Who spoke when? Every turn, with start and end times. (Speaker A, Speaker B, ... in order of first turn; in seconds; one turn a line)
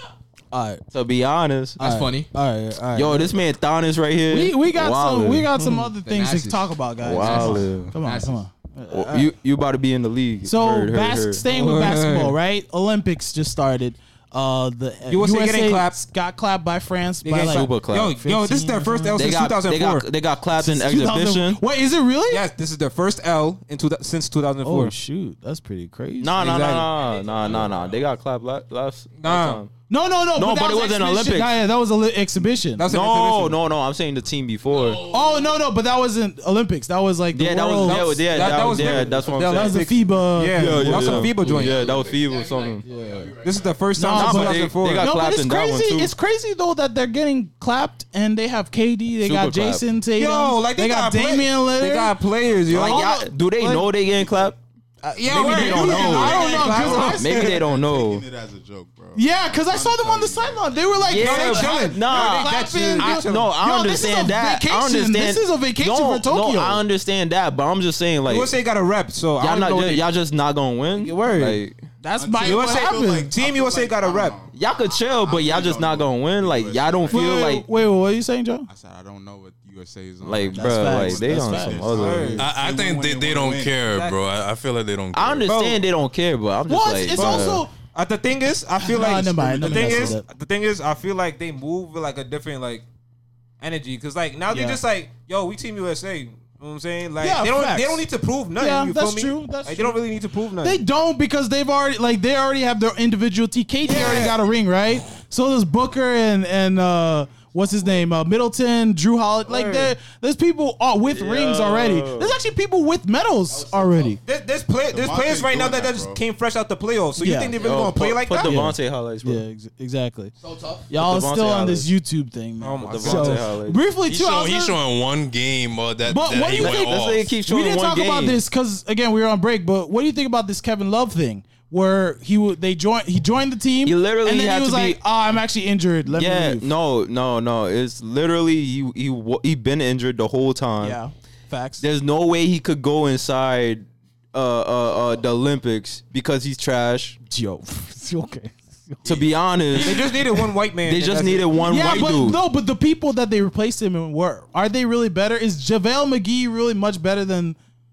Speaker A: 0.5-0.8
Speaker B: 0.9-1.8
Speaker C: 1.8-2.3
Speaker A: 1.8-3.3
Speaker B: 2.9-5.8
Speaker A: 4.3-9.3
Speaker C: 6.0-8.4
Speaker B: 7.0-7.9
Speaker B: 8.9-11.4
Speaker A: 10.4-19.2
Speaker D: 11.5-12.3
Speaker D: 15.1-16.0
Speaker D: 17.2-20.1
Speaker B: 17.4-18.2
Speaker B: 19.1-21.6
Speaker A: 20.6-22.5
Speaker D: 22.3-24.9
Speaker A: 24.6-26.5
Speaker B: 26.2-29.7
Speaker D: 26.4-26.9
Speaker E: 27.0-28.0
Speaker D: 29.2-29.6
Speaker A: 29.9-32.8
Speaker B: 30.3-31.6
Speaker D: 32.8-33.6
Speaker B: 32.9-35.0
Speaker C: 34.7-35.5
Speaker A: 35.1-41.6
Speaker B: 37.3-39.9
Speaker D: 37.8-41.9
Speaker B: 40.5-42.8
Speaker C: 41.4-43.7
Speaker A: 42.9-43.2
Speaker D: 43.4-45.1
Speaker A: 44.0-53.3
Speaker B: 44.1-46.1
Speaker B: 49.2-49.8
Speaker D: 50.1-53.1
Speaker B: 52.7-54.6
Speaker A: 55.0-57.4
Speaker D: 55.1-57.6
Speaker B: 55.3-58.2
Speaker E: 56.4-61.3
Speaker A: 59.1-66.8
Speaker B: 61.1-68.6
Speaker D: 61.1-63.5
Speaker D: 68.2-70.0
Speaker B: 69.4-71.8
Speaker D: 70.9-71.6
Speaker A: 72.0-73.3
Speaker E: 72.2-77.6
Speaker D: 72.4-74.4
Speaker B: 74.5-77.7
Speaker A: 77.1-78.7
Speaker E: 78.7-83.8
Speaker B: 80.2-82.3
Speaker A: 80.5-82.5
Speaker D: 81.9-82.5
Speaker F: 82.4-85.5
Speaker D: 83.9-84.2
Speaker B: 85.1-87.6
Speaker D: 85.5-85.8
Speaker A: 86.7-87.7
Speaker D: 87.1-92.8
Speaker A: 88.8-90.2
Speaker E: 89.0-90.2
Speaker D: 93.6-100.8
Speaker A: 94.5-94.8
Speaker A: 97.2-98.0
Speaker A: 98.6-100.0
Speaker A: 100.6-114.2
Speaker D: 103.8-104.4
Speaker D: 109.5-109.9
Speaker B: 111.0-112.4
Speaker C: 113.5-114.2
Speaker D: 114.2-118.5
Speaker E: 114.9-116.2
Speaker A: 117.2-117.5
Speaker B: 117.6-119.4
Speaker A: 118.4-120.3
Speaker C: 120.4-120.9
Speaker A: 120.9-124.8
Speaker B: 120.9-121.9
Speaker D: 122.6-123.4
Speaker B: 122.8-123.8
Speaker F: 124.1-127.3
Speaker A: 126.1-136.7
Speaker B: 126.4-128.4
Speaker B: 133.8-135.0
Speaker B: 136.1-141.0
Speaker A: 140.8-141.8
Speaker B: 141.8-147.2
Speaker A: 147.3-150.4
Speaker B: 149.0-150.2
Speaker D: 149.8-152.1
Speaker B: 150.8-152.4
Speaker A: 151.6-157.6